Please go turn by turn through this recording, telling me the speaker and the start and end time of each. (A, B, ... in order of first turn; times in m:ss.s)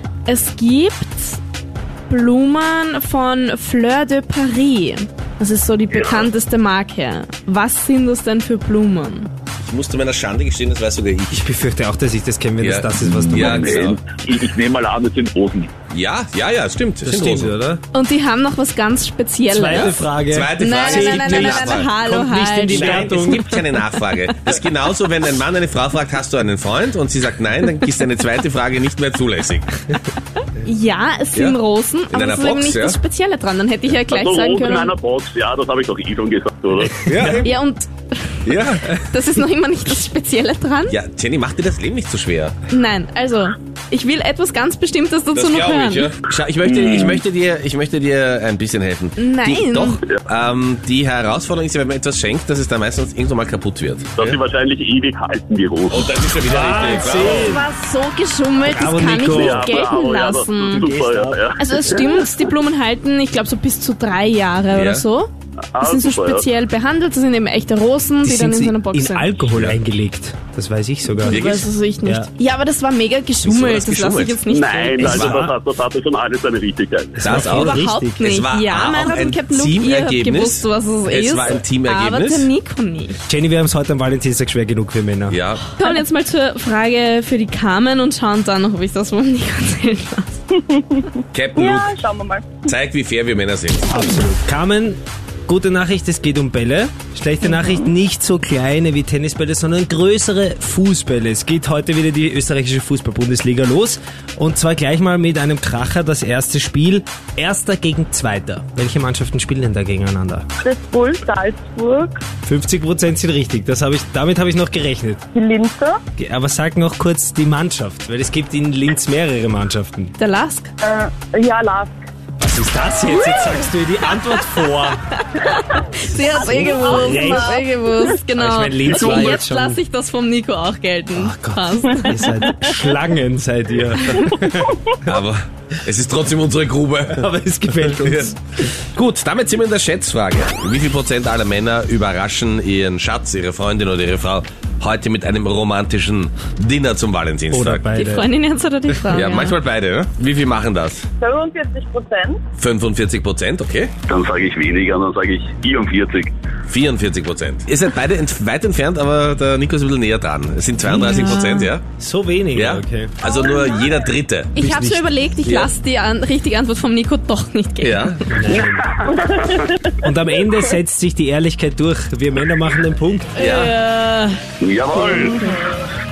0:00.3-0:01.4 A
0:02.1-0:09.3 A
0:05.9-0:06.2 B
0:09.6-0:11.5 C
0:11.3-0:14.0 D
0:12.6-0:14.0 C
0:13.1-0:15.7 B
0:15.9-0:17.5 C
0:17.0-0:17.8 D
0:17.9-0:20.0 A
0:19.5-0:23.5 D
0:19.7-0:21.9 C
0:20.6-0:23.9 A
0:22.7-0:29.7 C
0:30.6-0:34.9 A
0:32.1-0:33.0 C
0:34.1-0:37.0 B
0:37.0-0:37.5 C
0:37.1-0:37.5 D
0:37.4-0:37.9 A
0:38.4-0:38.9 C
0:38.6-0:41.0 A
0:40.9-0:42.6 C
0:42.7-0:46.1 A
0:45.3-0:54.4 C
0:46.6-0:47.2 B
0:49.2-0:50.0 A
0:54.2-0:56.1 B
0:55.9-0:57.4 C
0:56.4-0:57.6 D
0:57.0-1:00.9 A
0:58.7-0:59.7 D
0:59.2-1:02.2 B
1:00.7-1:01.4 D
1:01.6-1:09.3 A
1:04.7-1:05.0 C
1:05.8-1:06.4 B
1:08.2-1:11.5 D
1:09.5-1:09.8 C
1:11.1-1:15.3 A
1:11.3-1:11.7 C
1:12.0-1:12.3 D
1:13.4-1:14.4 C
1:14.5-1:17.2 B
1:15.0-1:15.5 C
1:17.2-1:18.2 D
1:17.2-1:22.5 C
1:17.3-1:23.2 A
1:23.3-1:25.4 D
1:25.3-1:25.7 C
1:25.8-1:30.4 A
1:30.5-1:32.7 E
1:31.3-1:31.9 C
1:32.6-1:33.9 C
1:33.9-1:50.5 D
1:50.6-1:52.2 E
1:52.4-1:55.2 D
1:55.3-1:56.0 E
1:56.2-2:00.1 D
2:00.2-2:00.7 A
2:00.8-2:02.0 E
2:02.4-2:05.0 D
2:05.2-2:12.4 A
2:06.3-2:07.6 D
2:06.4-2:07.5 E
2:08.4-2:09.8 D
2:11.1-2:15.2 D
2:15.0-2:27.8 C
2:17.1-2:18.4 D
2:27.5-2:28.3 D
2:27.9-2:29.6 A
2:29.1-2:31.0 C
2:31.2-2:32.4 E
2:32.6-2:33.9 C
2:34.1-2:36.3 B
2:36.7-2:41.8 C
2:40.9-2:41.7 A
2:42.0-2:43.1 D
2:42.5-2:44.5 C
2:44.5-2:48.2 A
2:44.6-2:45.0 D
2:45.4-2:45.7 C
2:47.8-2:48.2 C
2:48.3-2:49.0 D
2:50.0-2:53.3 D
2:53.3-2:54.4 A
2:53.4-2:53.7 C
2:54.6-2:55.4 B
2:54.9-2:55.7 A